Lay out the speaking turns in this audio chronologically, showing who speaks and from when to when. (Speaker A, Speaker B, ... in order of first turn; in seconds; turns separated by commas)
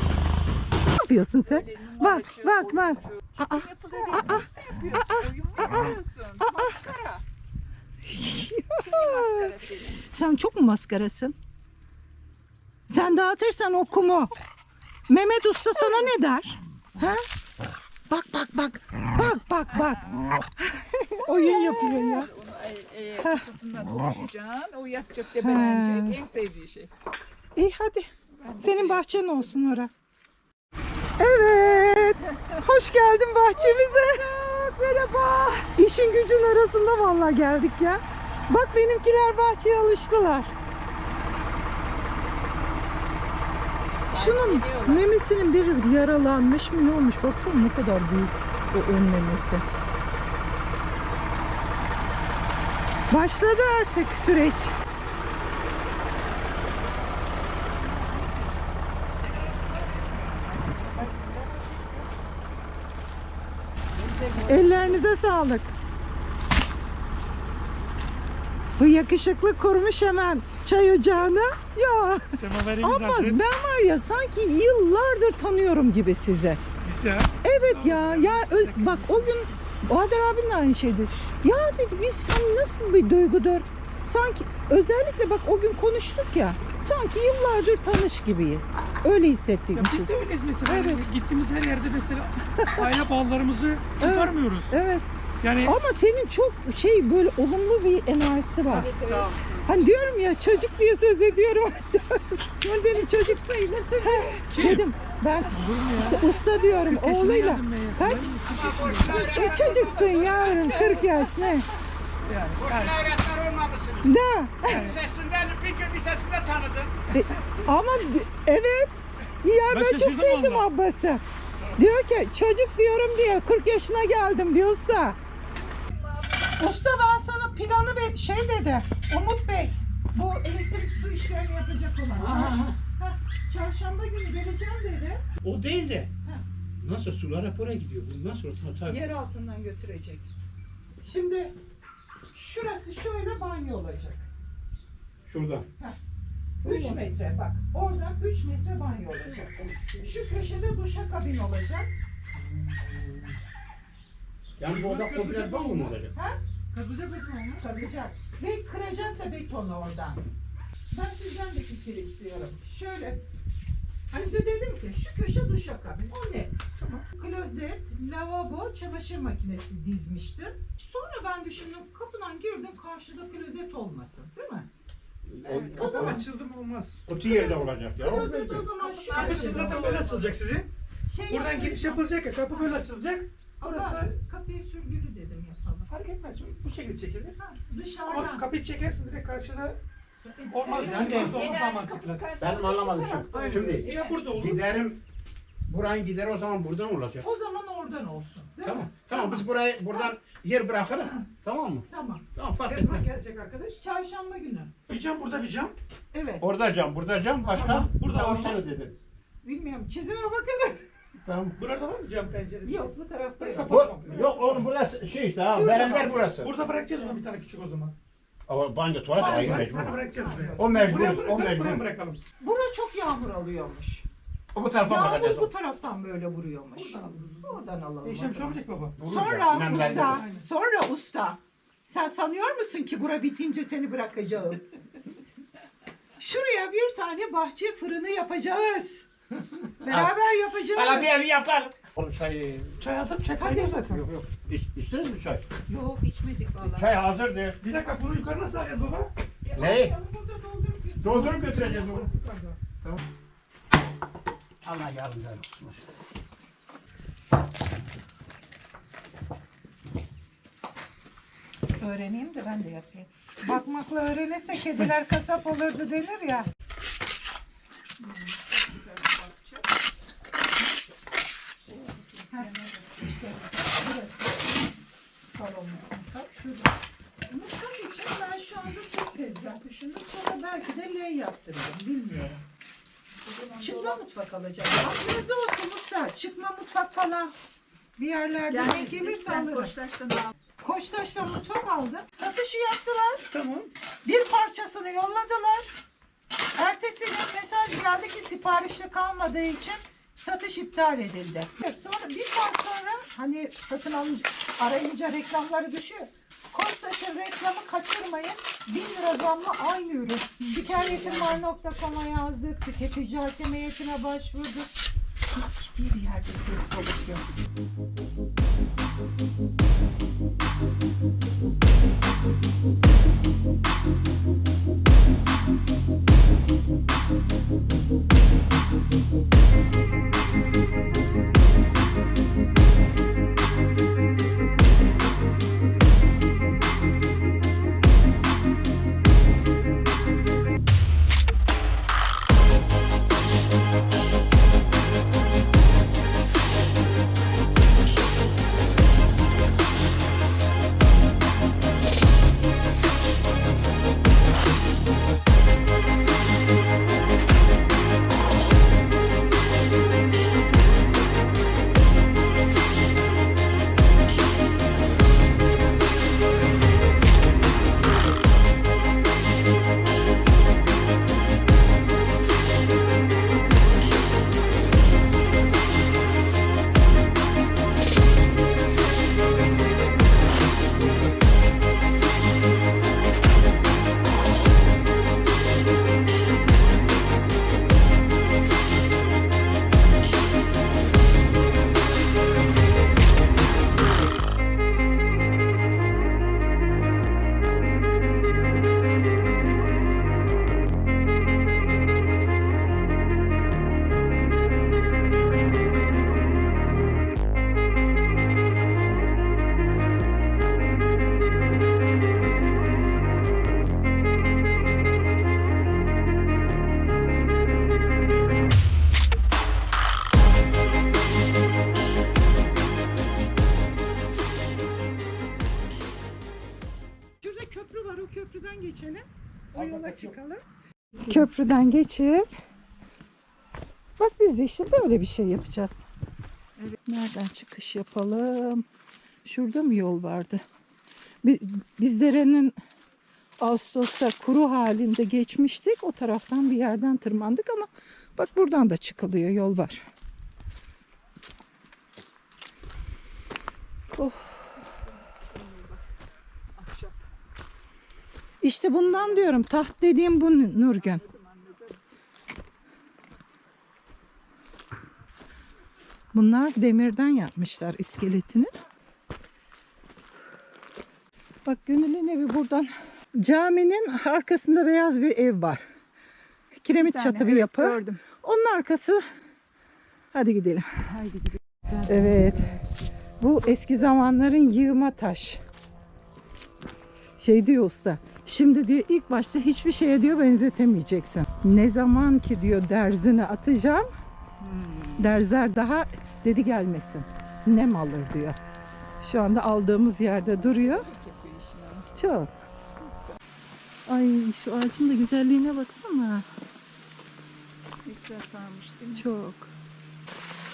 Speaker A: 0.9-5.7, Speaker B: 1.1-7.2, Speaker A: 6.4-6.7, Speaker A: 8.0-9.5, Speaker B: 8.7-10.0, Speaker A: 10.0-11.3, Speaker A: 12.9-14.3, Speaker A: 15.1-17.2, Speaker A: 18.1-22.3, Speaker B: 19.7-20.3, Speaker B: 21.2-26.9, Speaker A: 23.2-23.4, Speaker A: 25.4-26.2, Speaker A: 27.6-28.1, Speaker B: 28.4-29.5, Speaker A: 28.6-29.9, Speaker A: 31.2-34.2, Speaker B: 32.3-32.5, Speaker B: 33.6-35.7, Speaker A: 35.7-40.5, Speaker B: 44.0-45.1, Speaker A: 44.1-49.6, Speaker A: 53.1-54.8, Speaker C: 64.0-65.0, Speaker A: 64.4-65.7, Speaker A: 68.8-76.6, Speaker D: 72.2-73.4, Speaker D: 76.8-79.6, Speaker A: 77.4-91.0, Speaker D: 89.7-94.8, Speaker A: 92.5-92.8, Speaker A: 94.0-95.1, Speaker D: 95.4-95.8, Speaker A: 95.6-98.9, Speaker B: 98.7-100.2, Speaker A: 99.7-103.4, Speaker B: 102.8-104.5, Speaker A: 104.0-108.4, Speaker D: 104.5-104.8, Speaker B: 105.3-106.6, Speaker D: 105.5-109.4, Speaker C: 108.4-110.9, Speaker A: 109.0-111.7, Speaker B: 110.5-111.2, Speaker D: 112.2-113.1, Speaker C: 112.6-116.9, Speaker A: 114.0-114.9, Speaker D: 114.7-115.0, Speaker A: 117.1-121.2, Speaker D: 119.7-120.7, Speaker A: 121.7-125.2, Speaker B: 125.7-126.6, Speaker A: 126.5-135.2, Speaker C: 132.2-132.8, Speaker C: 135.4-136.1, Speaker C: 136.8-139.0, Speaker A: 138.8-140.3, Speaker A: 141.0-141.5, Speaker A: 142.3-144.3, Speaker C: 145.2-145.7, Speaker A: 146.6-151.9, Speaker C: 152.3-153.4, Speaker C: 154.6-156.1, Speaker D: 154.6-155.9, Speaker A: 156.1-160.3, Speaker A: 160.9-163.2, Speaker A: 164.1-166.5, Speaker A: 167.1-174.7, Speaker C: 175.3-176.2, Speaker D: 175.6-177.0, Speaker A: 175.7-176.2, Speaker C: 177.1-178.7, Speaker A: 177.2-179.9, Speaker B: 178.8-180.4, Speaker D: 179.1-180.7, Speaker A: 181.1-182.8, Speaker D: 181.3-184.1, Speaker A: 183.6-185.9, Speaker D: 185.9-187.4, Speaker A: 187.5-188.5, Speaker D: 188.0-189.8, Speaker A: 190.2-191.5, Speaker D: 190.5-192.3, Speaker C: 190.8-191.4, Speaker B: 191.1-194.1, Speaker C: 192.4-195.0, Speaker D: 193.8-194.8, Speaker C: 195.7-197.2, Speaker A: 197.2-200.1, Speaker C: 198.6-203.1, Speaker A: 201.9-202.2, Speaker D: 202.7-203.8, Speaker A: 203.8-204.7, Speaker D: 204.9-205.8, Speaker A: 206.1-206.5, Speaker C: 206.4-208.9, Speaker D: 207.5-208.6, Speaker A: 209.4-210.8, Speaker C: 211.2-211.6, Speaker D: 211.6-214.7, Speaker A: 212.6-213.9, Speaker C: 213.7-216.5, Speaker A: 215.4-216.2, Speaker D: 216.4-217.9, Speaker C: 218.5-220.0, Speaker D: 219.1-222.2, Speaker A: 219.3-219.6, Speaker A: 220.1-221.2, Speaker C: 220.6-221.8, Speaker A: 222.4-224.0, Speaker C: 224.5-225.5, Speaker A: 224.8-234.6, Speaker D: 226.7-229.0, Speaker C: 229.0-230.2, Speaker D: 229.6-230.4, Speaker A: 236.2-239.1, Speaker A: 239.8-241.1, Speaker C: 239.8-240.2, Speaker C: 240.7-242.8, Speaker D: 242.8-244.0, Speaker A: 243.4-243.8, Speaker C: 243.9-245.4, Speaker A: 245.7-246.2, Speaker B: 246.0-246.9, Speaker C: 246.6-247.6, Speaker D: 247.6-249.1, Speaker A: 249.4-251.4, Speaker C: 249.5-249.9, Speaker C: 251.0-252.1, Speaker D: 251.1-252.6, Speaker C: 254.6-255.8, Speaker A: 261.8-266.5, Speaker B: 268.0-269.7, Speaker B: 271.7-272.6, Speaker A: 272.3-274.5, Speaker A: 275.3-276.7, Speaker A: 277.3-282.4, Speaker B: 283.2-284.0, Speaker A: 283.6-287.3, Speaker A: 288.0-289.7, Speaker B: 288.5-290.3, Speaker A: 290.6-293.3, Speaker D: 293.3-293.7, Speaker A: 294.0-295.7, Speaker A: 296.5-314.7, Speaker B: 310.4-311.4, Speaker A: 315.3-317.2, Speaker A: 427.2-430.4, Speaker D: 429.5-430.1, Speaker A: 431.0-432.3, Speaker A: 434.0-435.9, Speaker A: 436.9-438.6, Speaker A: 439.2-440.4, Speaker A: 441.2-442.6, Speaker A: 443.4-449.8, Speaker A: 453.9-454.3, Speaker B: 454.6-455.8, Speaker B: 456.6-457.0, Speaker A: 458.4-461.0, Speaker B: 458.8-459.4, Speaker B: 460.6-461.8, Speaker A: 466.1-468.5, Speaker A: 471.4-475.6, Speaker A: 476.6-479.0, Speaker B: 476.8-478.0, Speaker A: 480.1-480.7, Speaker B: 480.9-482.6, Speaker A: 481.9-482.5, Speaker A: 483.2-485.4, Speaker A: 487.2-493.9, Speaker B: 494.4-495.2, Speaker A: 495.0-498.4, Speaker A: 499.0-500.9, Speaker B: 500.3-501.9, Speaker A: 501.9-502.3, Speaker B: 502.9-503.2, Speaker A: 503.9-506.2, Speaker B: 507.8-509.1, Speaker A: 508.9-509.5